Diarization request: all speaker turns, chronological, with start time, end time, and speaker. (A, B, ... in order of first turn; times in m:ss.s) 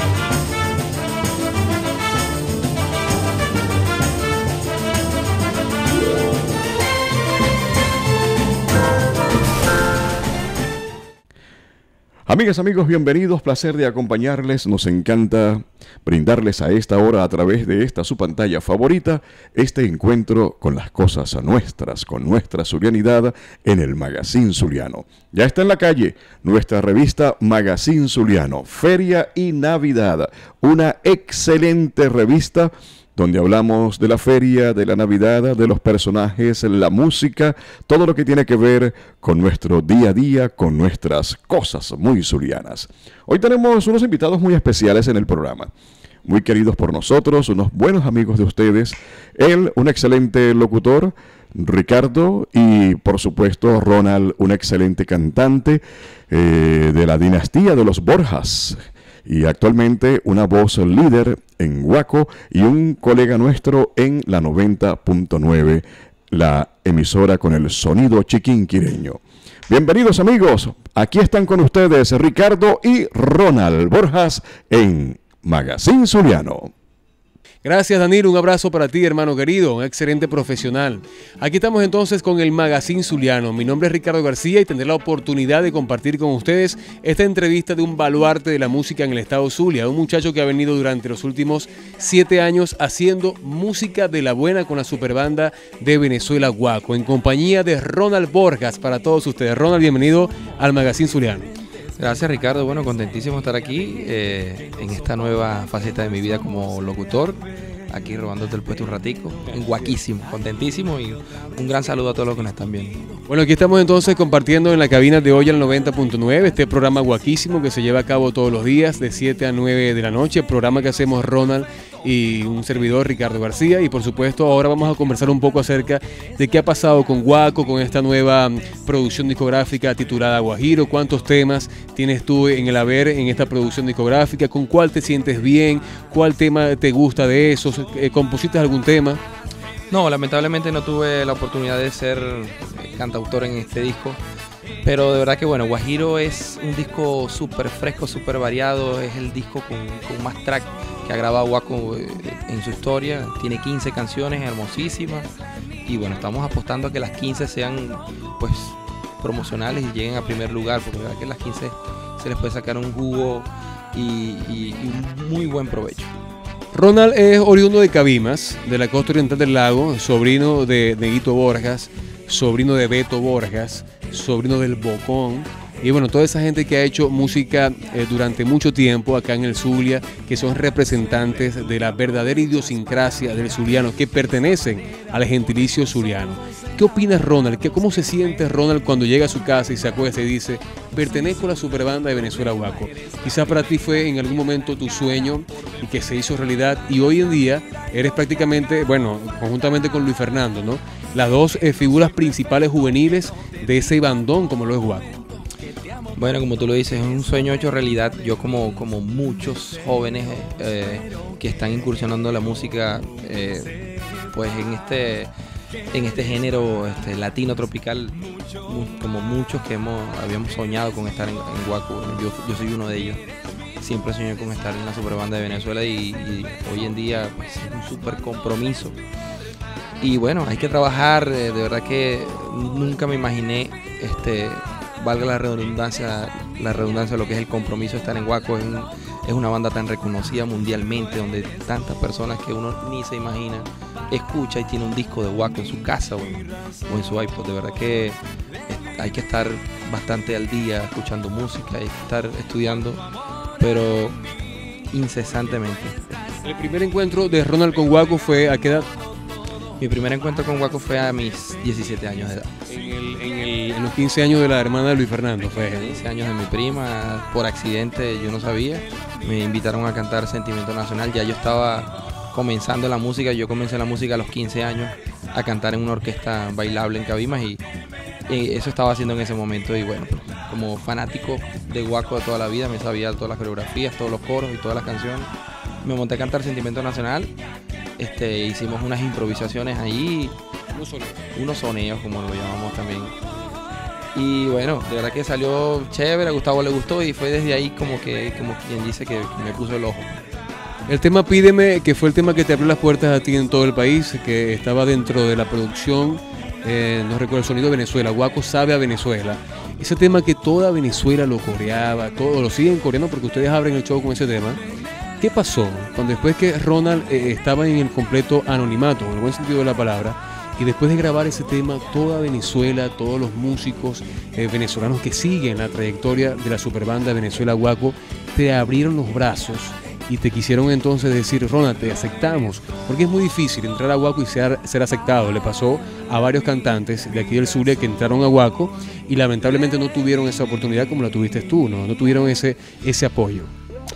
0:12.3-0:45.7 A
0:46.2-1:16.7 A
1:17.6-1:41.5 B
1:42.0-1:53.0 C
1:49.5-1:49.9 B
1:53.3-2:19.2 B
2:19.9-2:24.2 C
2:24.8-2:35.3 C
2:35.8-2:46.1 C
2:46.7-3:25.2 B
3:26.2-3:33.8 C
3:34.3-3:35.3 C
3:35.9-3:43.2 C
3:43.8-3:49.0 C
3:50.0-4:13.0 C
4:13.6-4:14.2 C
4:14.9-4:16.2 C
4:16.4-4:18.9 B
4:19.8-4:22.5 C
4:22.7-4:26.0 B
4:25.8-4:37.6 C
4:38.3-4:45.3 C
4:45.8-4:47.3 C
4:48.0-4:50.4 C
4:50.7-4:51.2 B
4:51.4-4:53.1 C
4:54.1-5:00.1 C
5:00.9-5:14.6 B
5:15.2-5:43.5 B